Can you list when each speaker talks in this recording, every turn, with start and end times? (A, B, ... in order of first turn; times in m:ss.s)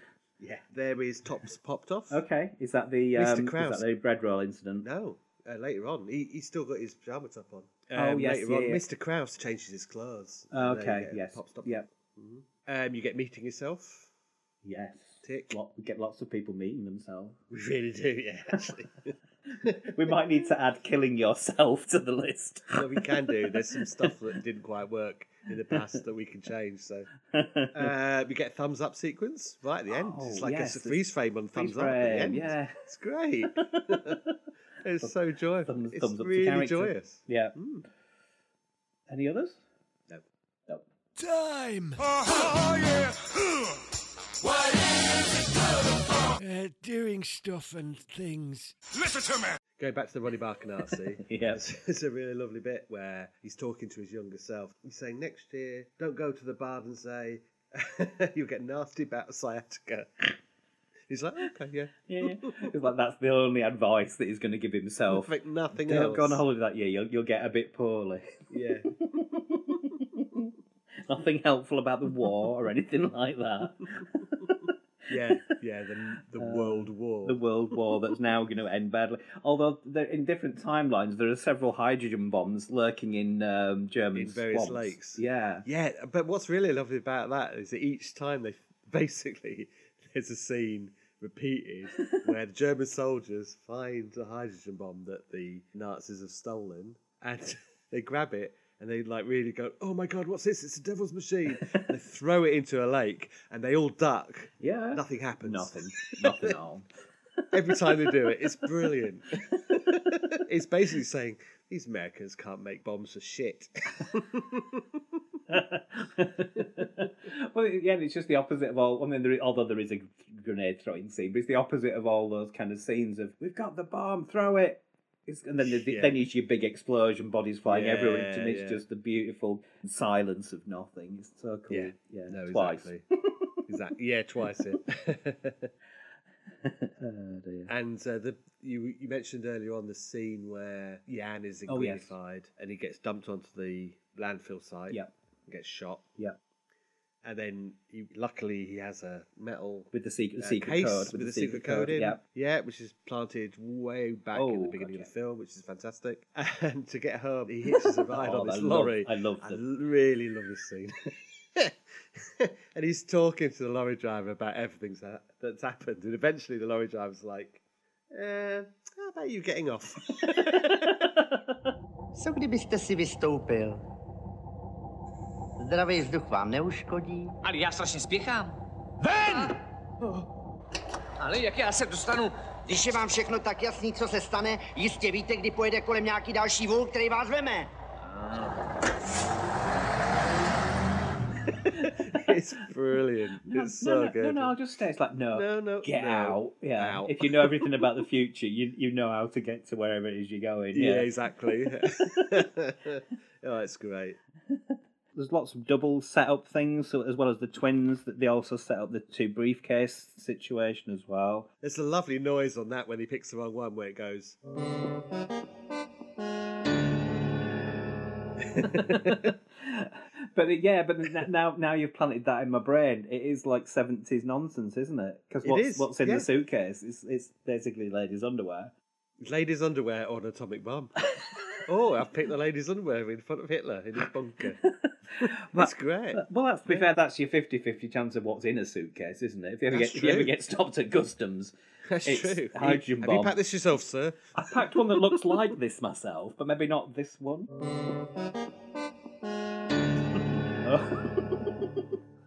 0:00.4-0:02.2 A
0:02.1-0:04.8 B
0:03.1-0:03.8 A
0:04.8-0:14.1 A
0:07.9-0:08.8 B
0:10.5-0:11.8 B
0:14.6-0:17.4 B
0:15.2-0:15.6 A
0:17.5-0:20.2 A
0:19.7-0:24.1 B
0:22.7-0:27.1 A
0:27.3-0:27.9 B
0:27.7-0:34.2 A
0:29.9-0:31.0 B
0:31.5-0:32.8 B
0:33.6-0:34.3 B
0:34.8-0:37.8 A
0:35.7-0:37.5 B
0:39.1-0:39.6 B
0:41.2-0:43.4 C
0:46.2-0:49.5 C
0:49.8-1:00.4 A
0:51.2-0:51.6 B
1:01.1-1:02.7 A
1:02.1-1:08.5 B
1:05.1-1:06.4 A
1:08.5-1:08.9 A
1:09.4-1:10.5 B
1:11.0-1:14.1 B
1:15.1-1:17.8 A
1:16.4-1:25.6 B
1:24.1-1:46.5 A
1:41.5-1:41.9 B
1:44.6-1:46.8 B
1:47.5-1:55.0 A
1:47.7-1:48.1 B
1:55.5-2:12.9 B
2:05.6-2:06.2 A
2:07.6-2:08.8 A
2:11.7-2:13.0 A
2:13.7-2:15.7 A
2:16.6-2:17.7 B
2:17.7-2:26.0 A
2:21.7-2:22.1 B
2:27.2-2:41.0 A
2:29.9-2:32.2 B
2:34.3-2:35.1 B
2:37.7-2:39.6 B
2:41.5-2:47.6 A
2:48.1-2:51.1 A
2:50.2-2:51.5 B
2:52.1-2:53.8 D
2:55.6-2:57.4 D
2:57.4-2:59.5 E
3:01.2-3:02.3 E
3:02.6-3:07.7 D
3:08.0-3:08.9 B
3:11.5-3:12.3 B
3:11.8-3:14.5 A
3:13.4-3:21.1 B
3:15.3-3:18.0 A
3:20.7-3:24.2 A
3:25.1-3:31.5 B
3:31.6-3:34.4 A
3:38.5-3:39.3 A
3:38.6-3:48.7 B
3:45.4-3:46.3 A
3:49.2-3:50.9 A
3:51.6-3:54.6 A
3:54.6-4:01.5 B
3:55.2-3:56.9 A
3:59.7-4:00.3 A
4:01.9-4:04.2 A
4:02.0-4:03.3 B
4:04.3-4:07.5 B
4:10.6-4:11.8 B